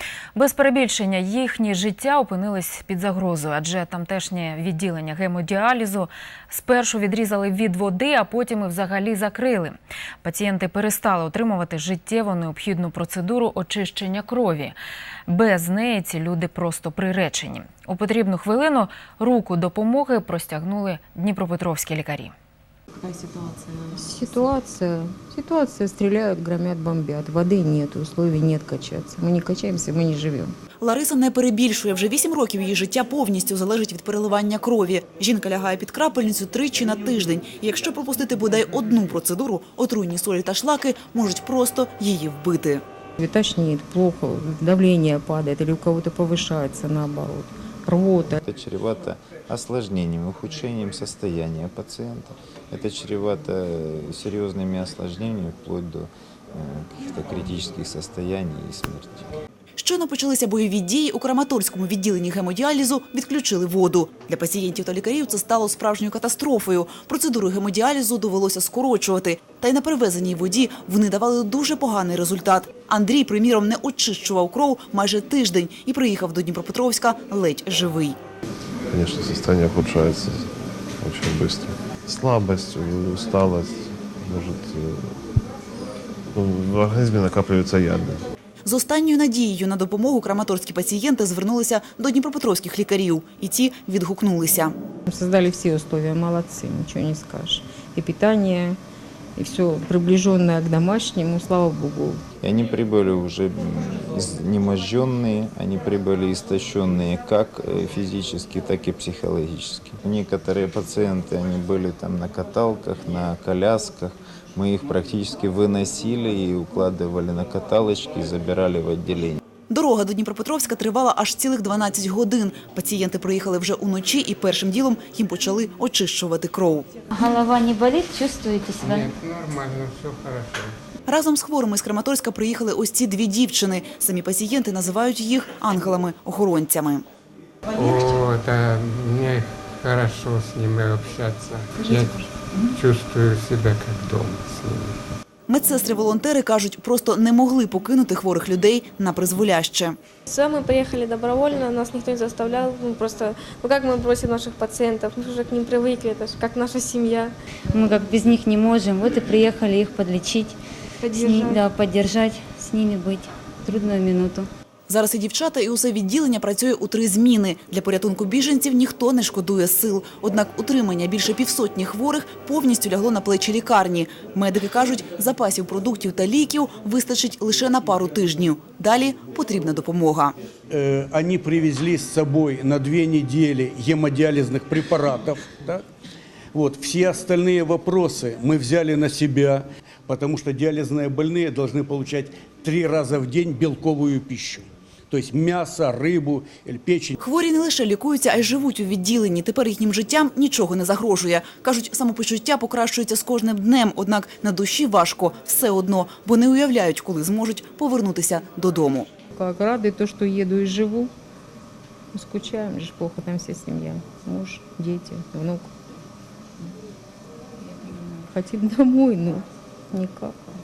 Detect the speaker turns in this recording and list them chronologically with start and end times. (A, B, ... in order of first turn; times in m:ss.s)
0:00.4-0:14.8 A
0:15.3-0:22.3 A
0:24.0-0:30.5 B
0:30.8-0:42.8 C
0:43.2-0:48.4 B
0:48.4-0:59.3 D
0:59.8-1:18.2 C
1:18.9-1:25.2 E
1:26.3-1:28.3 E
1:28.6-1:34.7 C
1:35.1-1:38.8 B
1:39.4-1:42.2 B
1:42.4-1:59.4 D
1:59.7-2:06.9 C
2:07.1-2:09.1 F
2:08.8-2:10.8 G
2:11.1-2:17.0 C
2:17.7-2:25.0 G
2:25.5-2:30.0 C
2:30.3-2:37.3 H
2:37.7-2:40.6 F
2:41.0-2:41.6 H
2:41.2-2:44.5 F
2:44.9-3:00.3 C
3:00.7-3:05.8 I
3:06.5-3:17.2 I
3:17.2-3:29.1 C
3:29.3-3:31.1 B
3:32.1-3:35.7 B
3:37.7-3:40.3 B